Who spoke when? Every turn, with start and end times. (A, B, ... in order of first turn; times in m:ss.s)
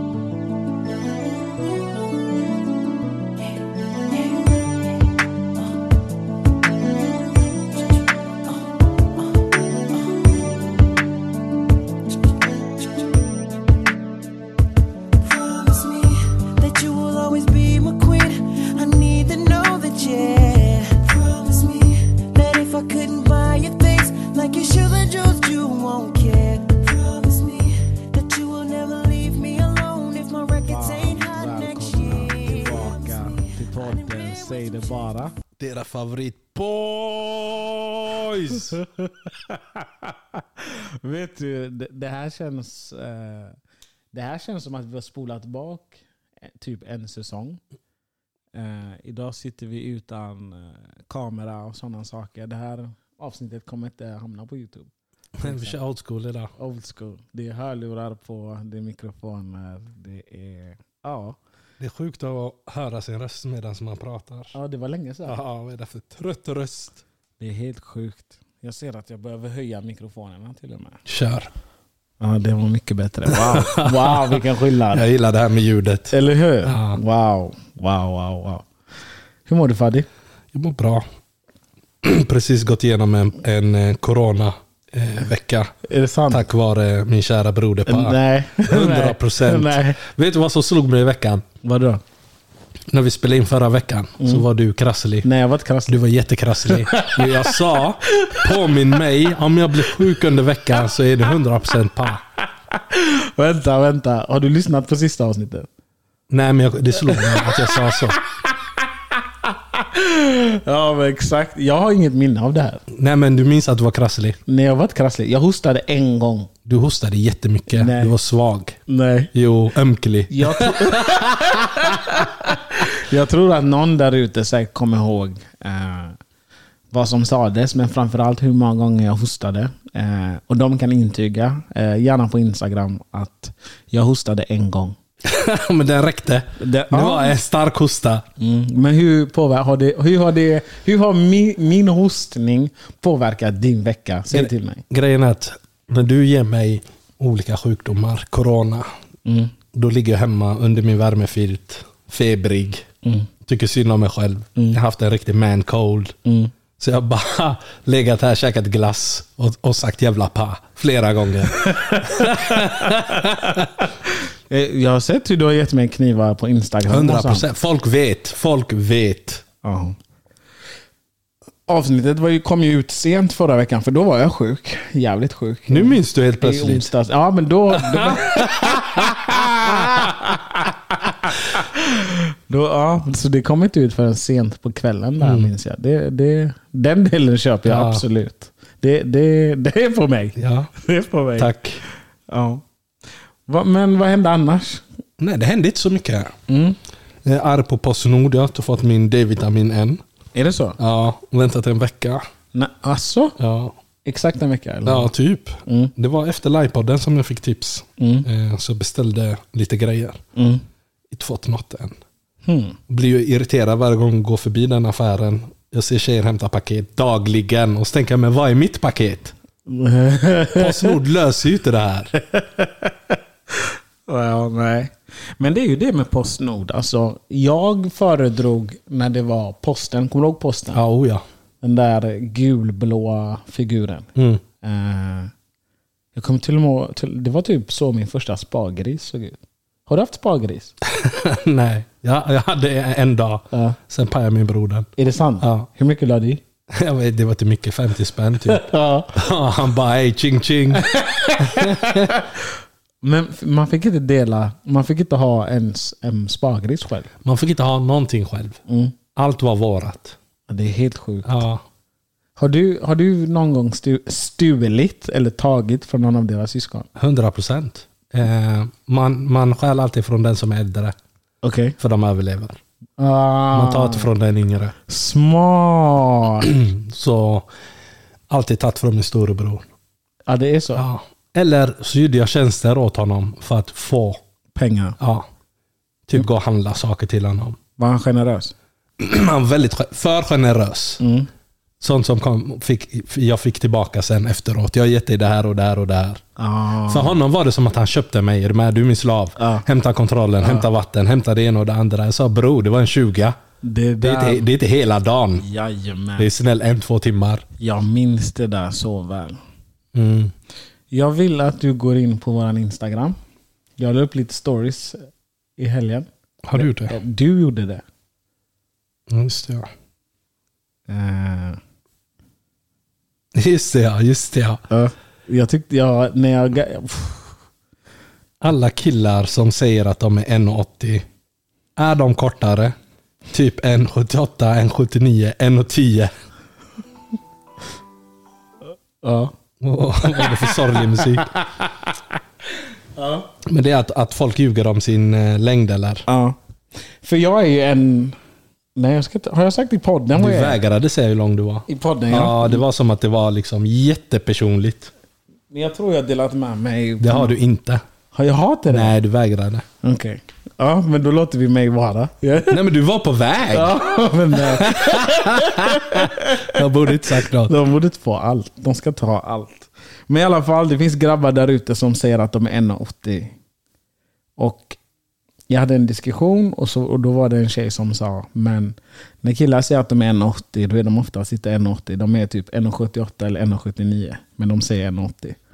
0:03.4-0:04.9 A
0:07.7-0:08.6 A
0:09.2-0:10.4 A
0:12.4-0:13.0 A
0:15.2-0:35.1 A
0:30.6-0:35.3 B
0:35.6-0:38.8 C
0:38.5-0:43.6 B
0:44.1-0:47.6 B
0:48.5-0:54.9 B
0:55.4-0:56.5 C
0:55.4-0:55.8 B
0:56.6-1:01.4 B
1:01.8-1:04.6 C
1:04.5-1:05.4 B
1:05.2-1:07.0 C
1:07.4-1:11.0 B
1:11.0-1:11.5 C
1:12.2-1:15.0 B
1:13.3-1:16.1 C
1:16.1-1:18.7 B
1:16.6-1:17.0 C
1:19.4-1:20.1 B
1:20.5-1:21.0 C
1:22.0-1:25.7 C
1:25.8-1:26.4 B
1:26.3-1:31.4 C
1:27.8-1:30.0 B
1:31.6-1:32.0 B
1:32.9-1:35.3 C
1:34.2-1:34.4 B
1:35.2-1:36.0 B
1:35.9-1:42.2 C
1:36.7-1:38.7 B
1:42.7-1:45.7 B
1:46.3-1:48.2 C
1:47.1-1:47.9 B
1:49.4-1:52.8 B
1:52.9-1:54.4 C
1:54.4-1:56.5 B
1:56.7-1:58.8 C
1:57.7-1:58.1 B
1:58.9-1:59.3 B
1:59.3-2:01.1 C
2:00.3-2:06.2 B
2:06.9-2:15.0 B
2:15.2-2:18.2 C
2:16.6-2:17.3 B
2:18.4-2:24.8 B
2:24.3-2:28.9 C
2:29.3-2:29.5 B
2:29.7-2:32.9 C
2:33.4-2:36.2 C
2:36.2-2:36.5 B
2:36.8-2:43.7 C
2:41.6-2:43.6 B
2:44.5-2:47.5 B
2:46.9-2:49.4 C
2:49.6-2:50.0 B
2:51.7-3:11.5 B
2:55.7-2:56.9 C
2:57.7-2:59.8 C
3:05.2-3:05.5 C
3:07.7-3:08.0 C
3:10.4-3:10.7 C
3:11.4-3:11.8 C
3:12.3-3:12.6 B
3:13.5-3:14.8 B
3:15.2-3:16.3 C
3:16.5-3:16.8 B
3:17.2-3:20.0 C
3:20.3-3:20.8 B
3:20.8-3:22.2 C
3:22.5-3:23.4 B
3:23.4-3:23.8 C
3:24.0-3:25.1 B
3:24.8-3:30.2 C
3:25.7-3:25.9 B
3:28.0-3:28.3 B
3:30.4-3:30.6 B
3:31.1-3:32.0 C
3:32.4-3:32.8 B
3:32.9-3:39.3 C
3:39.7-3:41.0 B
3:40.6-3:42.1 C
3:42.2-3:50.8 B
3:50.7-3:51.2 C
3:51.6-3:55.3 B
3:54.2-3:54.4 C
3:56.2-4:00.8 B
4:00.8-4:05.7 C
4:03.5-4:03.8 B
4:05.0-4:06.4 B
4:06.7-4:12.2 C
4:08.5-4:09.1 B
4:10.8-4:12.4 B
4:13.0-4:17.1 B
4:17.2-4:18.6 C
4:18.7-4:18.9 B
4:19.2-4:20.2 C
4:20.5-4:21.4 B
4:21.2-4:21.6 C
4:22.4-4:26.9 B
4:27.0-4:30.9 C
4:31.4-4:31.8 B
4:31.8-4:32.6 C
4:33.0-4:34.1 B
4:33.5-4:34.8 C
4:34.9-4:36.5 B
4:36.4-4:37.5 C
4:38.3-4:39.6 C
4:40.3-4:40.8 B
4:40.8-4:44.2 C
4:44.6-4:45.0 B
4:45.0-4:45.3 C
4:46.1-4:47.6 C
4:47.8-4:48.5 B
4:49.0-4:51.0 C
4:51.0-4:51.3 B
4:51.8-4:56.2 C
4:56.4-4:57.2 B
4:56.9-5:03.4 C
4:59.4-4:59.6 B
5:00.4-5:00.7 B
5:03.6-5:04.4 B
5:04.0-5:05.4 C
5:05.4-5:06.3 B
5:06.2-5:07.4 C
5:07.6-5:09.4 B
5:09.9-5:10.3 C
5:10.9-5:13.2 B
5:13.8-5:17.8 B
5:16.4-5:17.0 C
5:19.1-5:19.7 C
5:20.9-5:21.6 B
5:23.3-5:24.6 C
5:24.7-5:27.3 B
5:28.4-5:31.0 C
5:31.8-5:32.8 C
5:33.3-5:36.1 C
5:39.0-5:39.3 B
5:39.6-5:41.3 C
5:40.0-5:41.4 B
5:43.0-5:43.2 B
5:43.4-5:46.1 C
5:46.1-5:46.4 B
5:47.0-5:48.2 B
5:48.8-5:50.6 B
5:50.2-5:54.9 C
5:51.7-5:52.6 B
5:55.5-5:57.3 B
5:57.0-5:57.8 C
5:58.1-5:58.9 B
5:58.7-5:59.6 C
5:59.8-6:02.6 B
6:02.5-6:03.8 C
6:03.5-6:13.3 B
6:04.3-6:07.5 C
6:14.4-6:14.8 B
6:15.5-6:25.4 B